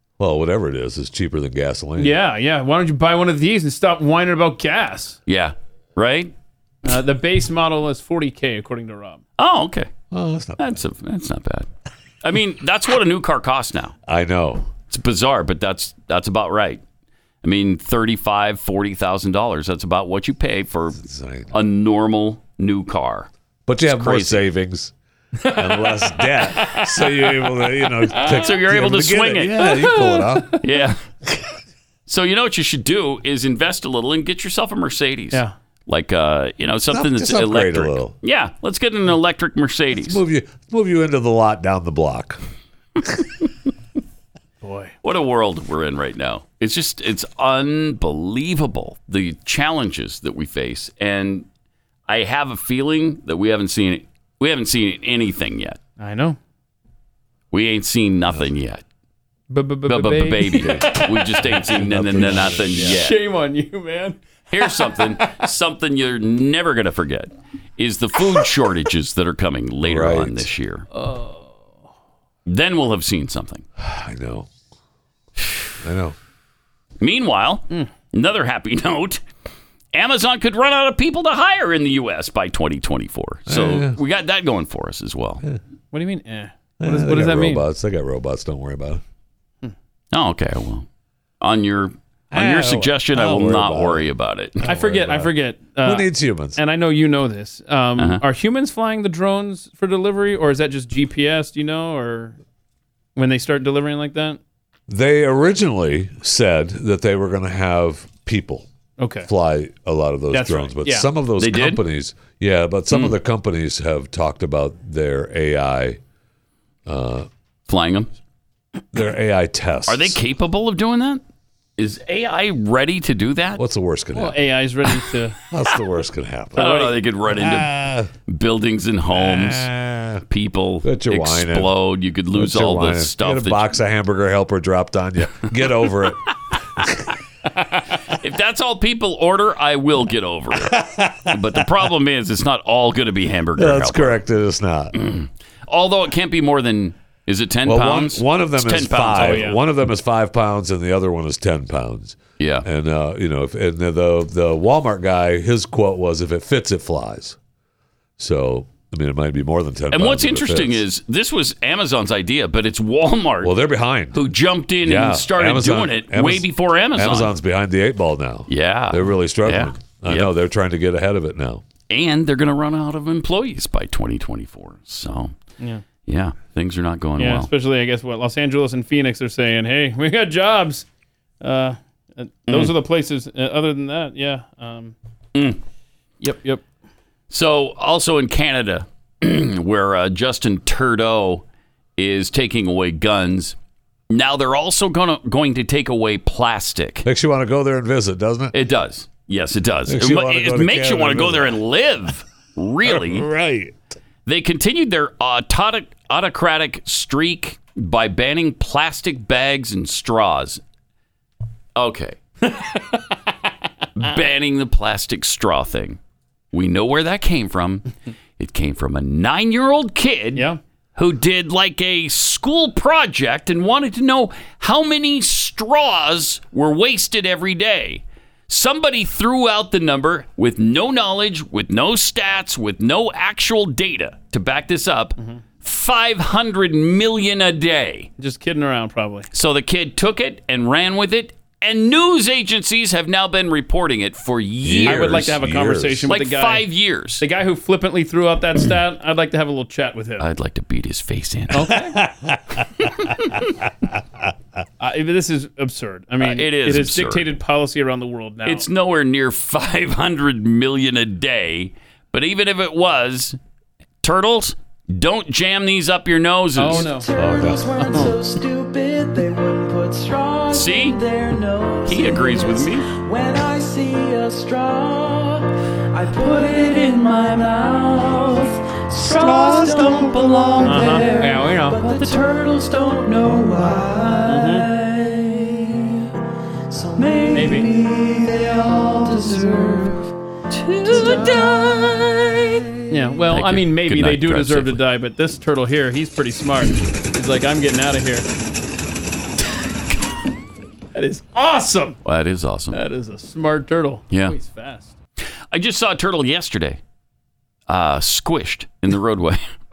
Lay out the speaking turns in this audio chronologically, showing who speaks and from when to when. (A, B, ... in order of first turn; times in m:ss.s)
0:00.2-0:02.2 A
0:02.0-0:05.2 B
0:05.3-0:06.3 C
0:06.8-0:09.2 B
0:09.4-0:09.9 C
0:10.1-0:10.8 A
0:10.6-0:11.7 C
0:12.2-0:13.9 C
0:14.0-0:14.8 A
0:14.8-0:16.8 C
0:17.4-0:21.0 C
0:20.9-0:21.5 A
0:21.5-0:23.3 C
0:23.6-0:24.9 A
0:23.9-0:24.5 C
0:25.4-0:28.5 B
0:25.5-0:30.6 A
0:28.2-0:29.7 C
0:29.6-0:30.6 B
0:30.6-0:31.0 C
0:32.1-0:40.2 C
0:36.9-0:38.2 A
0:39.9-0:42.4 A
0:44.6-0:44.9 B
0:45.0-0:51.4 C
0:52.1-0:55.8 C
0:56.0-0:56.4 B
0:57.5-0:58.8 C
0:59.5-1:01.6 B
0:59.9-1:03.2 C
1:00.6-1:00.9 A
1:01.4-1:03.0 A
1:02.8-1:05.4 B
1:04.5-1:10.9 C
1:09.8-1:10.5 A
1:10.9-1:11.7 B
1:12.4-1:13.6 C
1:13.8-1:14.5 A
1:15.8-1:16.2 A
1:17.0-1:19.2 C
1:19.9-1:25.4 C
1:23.5-1:24.0 A
1:25.9-1:27.6 B
1:26.8-1:29.0 A
1:30.1-1:30.9 C
1:31.4-1:34.7 C
1:32.3-1:36.6 A
1:34.6-1:42.4 B
1:43.2-1:44.4 B
1:44.9-1:48.6 A
1:49.0-1:49.3 B
1:49.2-1:56.0 A
1:50.3-1:51.1 B
1:51.4-1:51.8 C
1:52.9-1:53.2 C
1:56.8-1:57.3 A
1:57.7-1:58.1 C
1:58.9-2:00.2 A
1:59.9-2:01.2 C
2:01.8-2:03.6 C
2:03.6-2:04.4 A
2:04.1-2:05.4 B
2:05.5-2:08.1 A
2:06.5-2:09.7 C
2:06.6-2:06.9 B
2:09.1-2:10.2 A
2:10.3-2:13.7 C
2:10.8-2:11.7 A
2:12.3-2:16.2 A
2:17.9-2:20.8 C
2:20.5-2:21.8 A
2:21.3-2:24.2 C
2:23.6-2:24.9 A
2:24.9-2:29.6 C
2:27.6-2:37.4 A
2:29.1-2:29.6 B
2:32.4-2:32.7 C
2:38.2-2:40.8 A
2:39.9-2:43.6 C
2:43.4-2:44.2 A
2:44.1-2:47.3 C
2:44.8-2:51.6 A
2:48.5-2:50.3 C
2:51.9-2:55.3 C
2:56.0-2:57.5 C
2:57.2-3:00.8 B
3:01.4-3:04.9 B
3:02.5-3:02.7 C
3:06.2-3:06.6 B
3:07.3-3:11.4 C
3:12.0-3:13.6 C
3:14.1-3:17.1 C
3:17.0-3:18.5 A
3:18.5-3:23.2 C
3:19.9-3:21.6 A
3:22.8-3:23.8 A
3:24.2-3:30.6 C
3:31.8-3:32.2 C
3:34.0-3:36.0 C
3:36.5-3:58.1 C
3:58.2-3:59.3 B
3:59.3-4:05.3 C
4:04.6-4:06.1 A
4:04.8-4:06.6 B
4:06.1-4:07.2 C
4:07.2-4:10.3 B
4:10.2-4:11.7 C
4:11.5-4:12.0 B
4:11.7-4:12.4 A
4:14.8-4:18.7 B
4:16.2-4:17.3 C
4:18.4-4:23.4 C
4:24.0-4:26.9 C
4:26.6-4:27.1 B
4:26.6-4:46.0 D
4:27.1-4:28.1 A
4:27.8-4:28.1 B
4:30.5-4:31.0 C
4:31.8-4:32.9 C
4:39.4-4:39.9 A
4:40.6-4:41.8 B
4:44.2-4:44.7 B
4:46.7-4:52.7 D
4:47.3-4:47.7 B
4:50.8-4:51.7 B
4:52.9-4:58.2 B
4:53.3-4:54.8 C
5:00.9-5:02.0 B
5:02.0-5:02.8 C
5:02.7-5:04.9 B
5:05.5-5:06.8 C
5:07.7-5:09.4 C